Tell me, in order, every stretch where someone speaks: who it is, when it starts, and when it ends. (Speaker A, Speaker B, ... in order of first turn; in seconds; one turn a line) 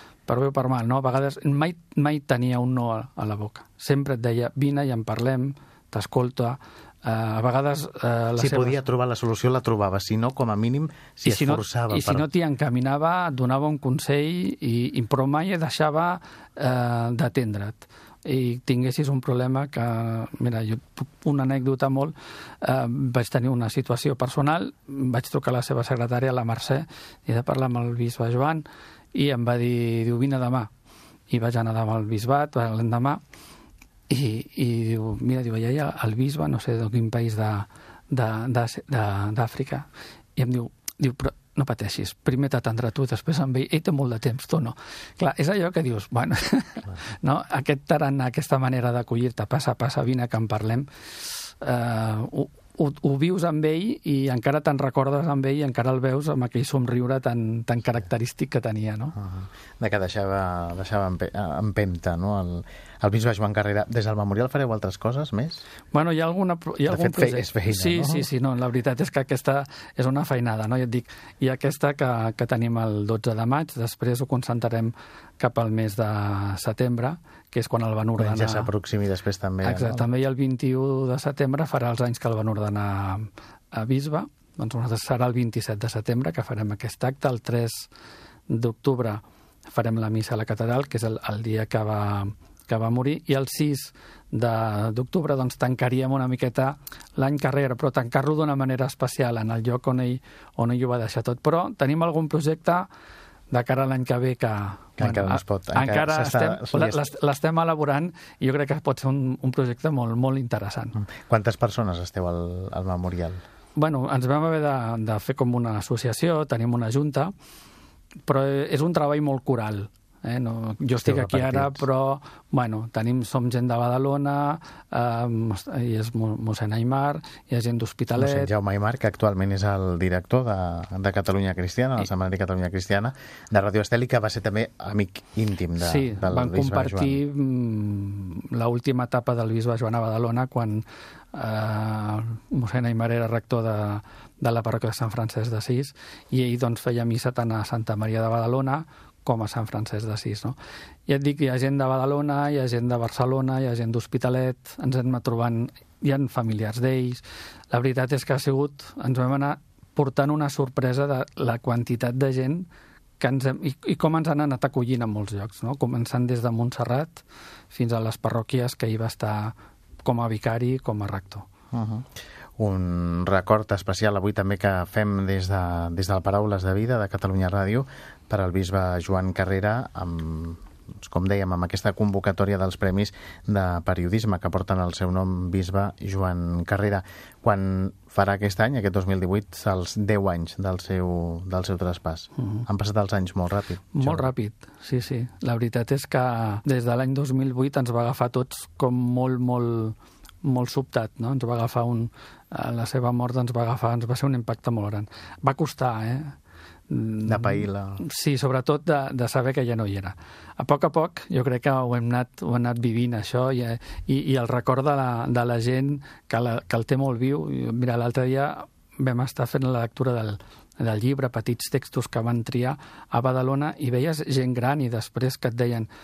Speaker A: 0.3-8.8
Speaker B: 8.4-12.2
Speaker A: 11.2-30.7
Speaker A: 31.3-33.2
Speaker A: 34.1-59.1
Speaker B: 59.1-65.6
Speaker A: 65.9-78.7
Speaker B: 66.9-68.3
Speaker B: 78.2-80.1
Speaker A: 79.6-87.9
Speaker A: 88.5-102.9
Speaker A: 103.5-111.0
Speaker B: 105.0-107.0
Speaker B: 111.0-113.4
Speaker A: 113.8-117.3
Speaker A: 118.3-128.5
Speaker B: 121.0-121.9
Speaker B: 128.2-137.2
Speaker A: 135.8-162.7
Speaker A: 163.2-171.5
Speaker B: 171.7-194.3
Speaker A: 192.4-192.6
Speaker A: 193.9-206.3
Speaker A: 206.9-225.9
Speaker B: 207.2-208.0